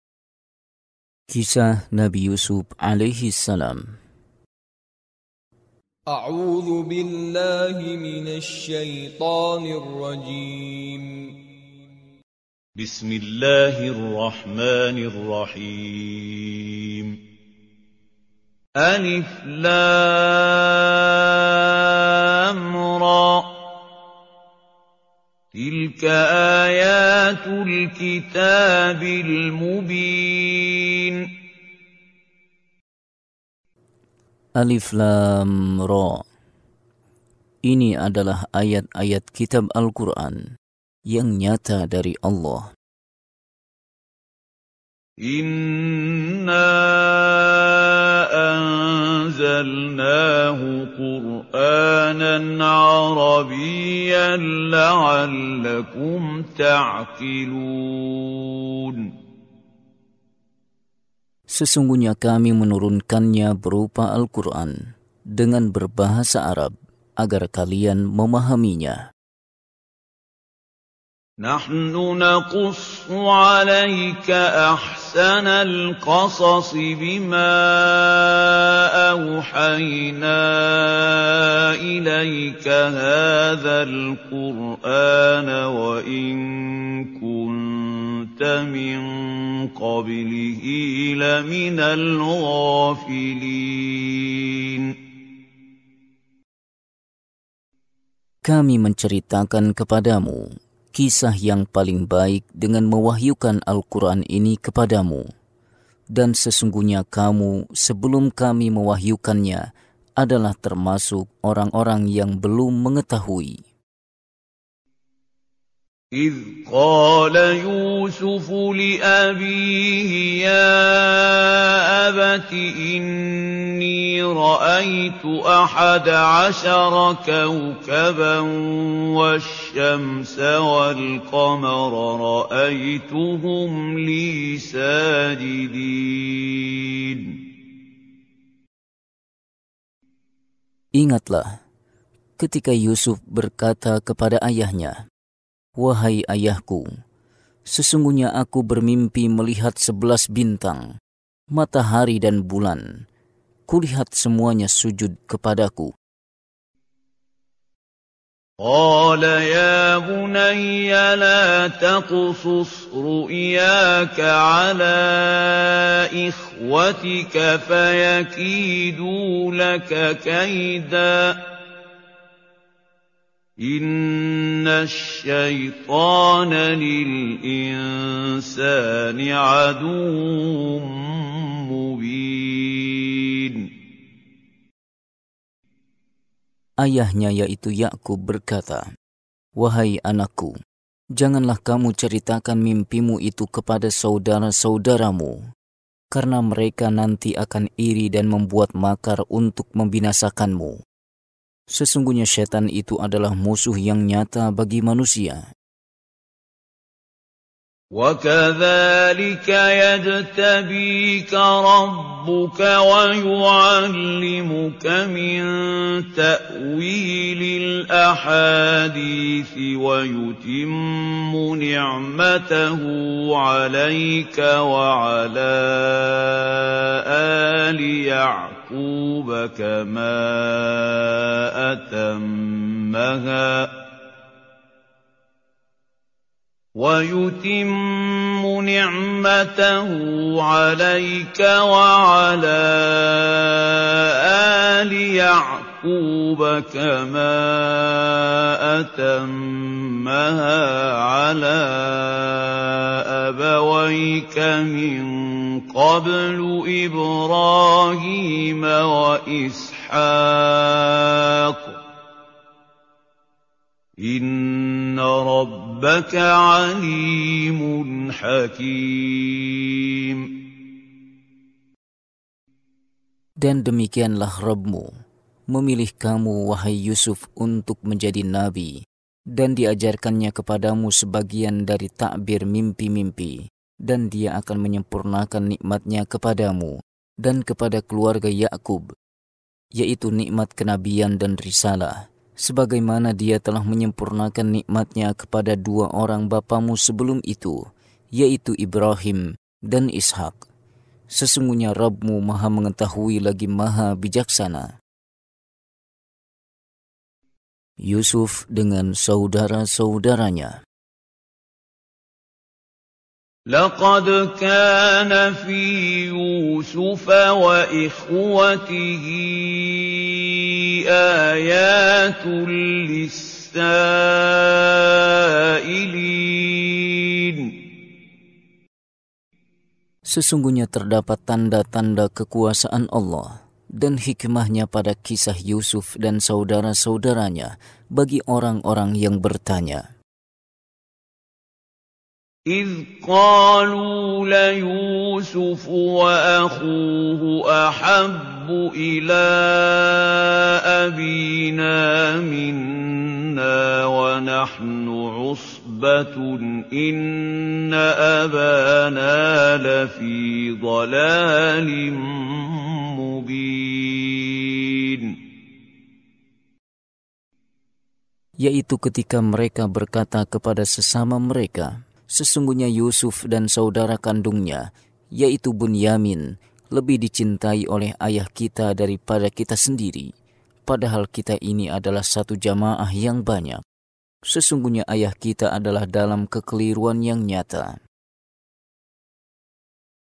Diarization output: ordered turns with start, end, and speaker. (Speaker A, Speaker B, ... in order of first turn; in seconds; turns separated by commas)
Speaker A: 1.3-3.9, Speaker B: 6.1-11.3, Speaker C: 12.8-17.2, Speaker C: 18.8-23.7, Speaker C: 25.5-31.3, Speaker A: 34.6-36.2, Speaker A: 37.7-40.4, Speaker A: 41.1-42.7, Speaker C: 45.2-59.1, Speaker A: 61.5-64.8, Speaker A: 65.3-69.0, Speaker C: 71.4-95.0, Speaker A: 98.4-105.3, Speaker A: 106.1-109.7, Speaker A: 110.2-113.6, Speaker C: 116.1-137.4, Speaker A: 140.9-141.6, Speaker A: 142.4-145.0, Speaker A: 145.8-146.9, Speaker A: 147.7-150.9, Speaker A: 151.5-153.0, Speaker A: 153.7-155.9, Speaker C: 158.6-171.5, Speaker C: 173.6-183.7, Speaker A: 186.8-188.8, Speaker A: 189.6-190.5, Speaker A: 191.2-195.4, Speaker A: 196.1-200.8, Speaker A: 201.7-205.4, Speaker C: 207.9-233.9, Speaker C: 236.8-261.8, Speaker C: 264.0-270.5, Speaker A: 273.4-274.9, Speaker A: 275.5-288.9, Speaker A: 289.8-297.6, Speaker A: 298.1-300.4, Speaker A: 301.1-304.7, Speaker A: 307.8-310.6, Speaker C: 313.5-327.6, Speaker A: 330.1-339.9, Speaker C: 342.5-365.2, Speaker A: 368.4-380.1, Speaker A: 380.6-383.6, Speaker A: 384.3-387.8